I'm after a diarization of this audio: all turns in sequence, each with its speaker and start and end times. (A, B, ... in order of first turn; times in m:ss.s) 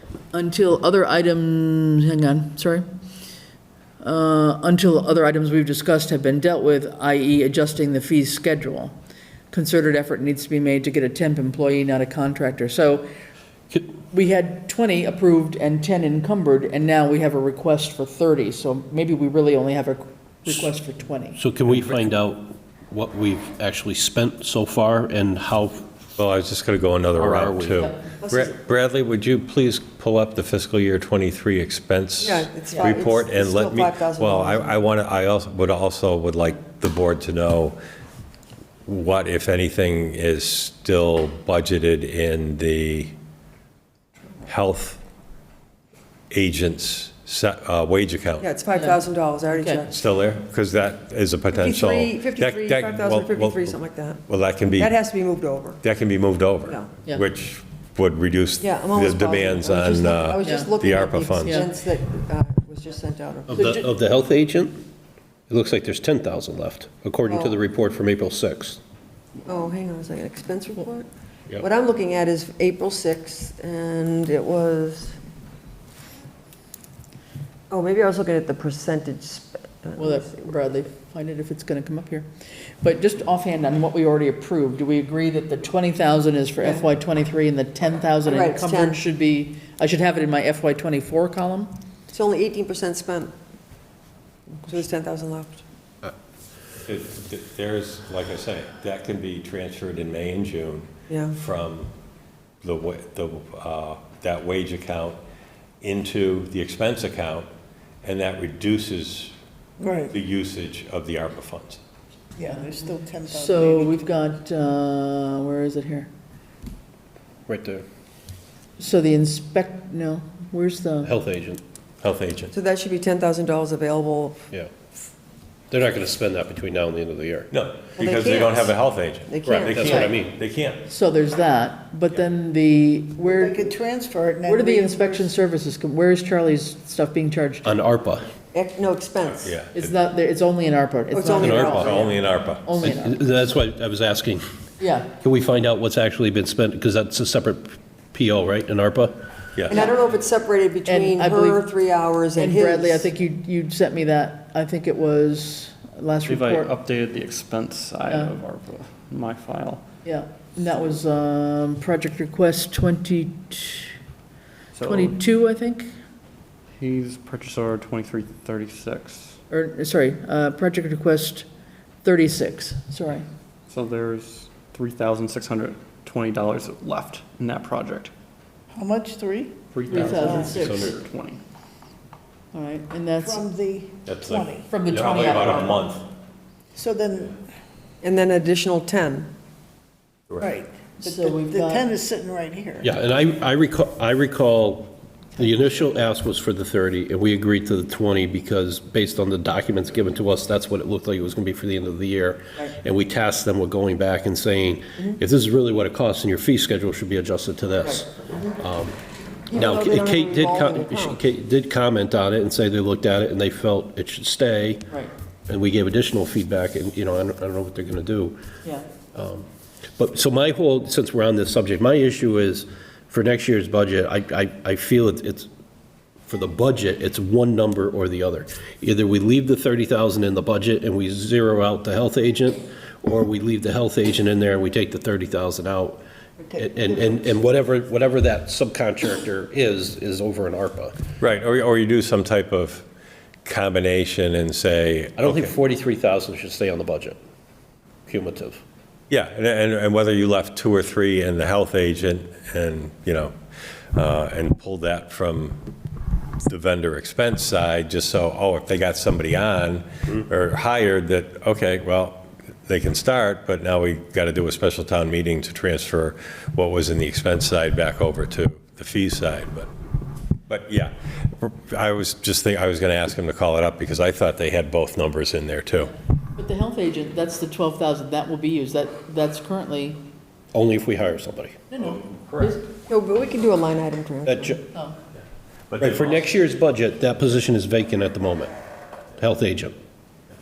0:00.3-0:02.8 A
0:04.0-0:08.9 A
0:09.5-0:13.1 A
0:14.1-0:21.4 A
0:21.4-0:25.9 B
0:26.2-0:37.8 C
0:27.2-0:27.9 B
0:28.2-0:28.6 D
0:32.2-0:34.8 D
0:38.9-0:43.2 C
0:44.5-0:45.0 C
0:46.3-0:48.5 C
0:48.4-0:50.1 D
0:49.9-0:53.8 C
0:51.5-0:55.8 D
0:54.3-0:55.0 C
0:55.8-1:01.7 C
0:56.6-0:56.9 D
0:58.6-1:03.8 D
1:00.4-1:00.7 A
1:03.5-1:04.8 B
1:05.5-1:08.8 B
1:07.3-1:07.6 D
1:09.5-1:11.1 D
1:11.6-1:15.2 D
1:17.7-1:20.3 D
1:20.0-1:22.3 A
1:22.8-1:31.7 A
1:26.6-1:26.9 D
1:28.2-1:29.0 D
1:32.1-1:33.3 D
1:34.6-1:35.6 D
1:36.9-1:41.9 C
1:41.1-1:41.4 D
1:42.6-1:45.2 C
1:45.8-1:47.5 C
1:48.0-1:49.3 C
1:49.8-1:50.2 E
1:50.1-1:51.8 C
1:52.4-1:54.1 E
1:52.4-1:56.1 A
1:57.5-1:57.9 B
1:58.8-2:01.1 A
2:01.0-2:01.6 B
2:02.0-2:02.5 C
2:02.5-2:04.4 D
2:05.7-2:07.5 B
2:07.5-2:10.8 C
2:08.0-2:10.1 D
2:09.5-2:10.4 B
2:09.9-2:10.1 A
2:10.9-2:13.6 A
2:13.2-2:15.3 E
2:14.5-2:17.8 A
2:17.6-2:18.3 B
2:18.5-2:19.6 D
2:19.3-2:20.0 C
2:19.7-2:23.2 A
2:21.1-2:22.2 D
2:21.4-2:21.9 B
2:21.7-2:22.7 C
2:22.8-2:24.4 B
2:24.8-2:25.1 A
2:25.2-2:29.2 B
2:29.6-2:29.9 C
2:29.7-2:33.1 D
2:30.9-2:31.6 A
2:32.4-2:36.7 A
2:36.3-2:39.8 F
2:40.0-2:44.0 A
2:44.7-2:45.2 F
2:44.9-2:45.9 A
2:46.8-2:49.4 F
2:49.5-2:51.5 A
2:52.0-2:53.2 A
2:53.7-2:58.1 F
2:58.7-2:59.6 E
2:59.7-3:01.4 F
2:59.9-3:01.0 A
3:00.1-3:00.6 E
3:00.5-3:00.9 B
3:02.5-3:03.4 A
3:03.2-3:04.7 E
3:04.0-3:06.0 C
3:04.7-3:06.0 A
3:06.8-3:07.4 E
3:08.0-3:09.3 D
3:10.4-3:12.9 E
3:11.0-3:11.9 A
3:12.8-3:29.0 B
3:29.5-3:31.2 D
3:29.5-3:34.9 B
3:35.5-3:38.4 B
3:39.2-3:45.5 B
3:46.2-3:56.0 B
3:56.6-4:01.0 B
4:01.2-4:02.9 C
4:03.4-4:05.5 C
4:05.2-4:07.2 B
4:08.1-4:08.6 B
4:09.1-4:13.3 C
4:13.9-4:15.6 C
4:16.5-4:29.7 C
4:30.5-4:35.9 C
4:35.9-4:40.0 A
4:40.5-4:41.6 B
4:41.7-4:42.6 A
4:42.2-4:42.5 C
4:42.4-4:44.6 D
4:44.3-4:44.6 B
4:45.7-4:46.2 C
4:45.8-4:48.5 B
4:49.2-4:49.8 B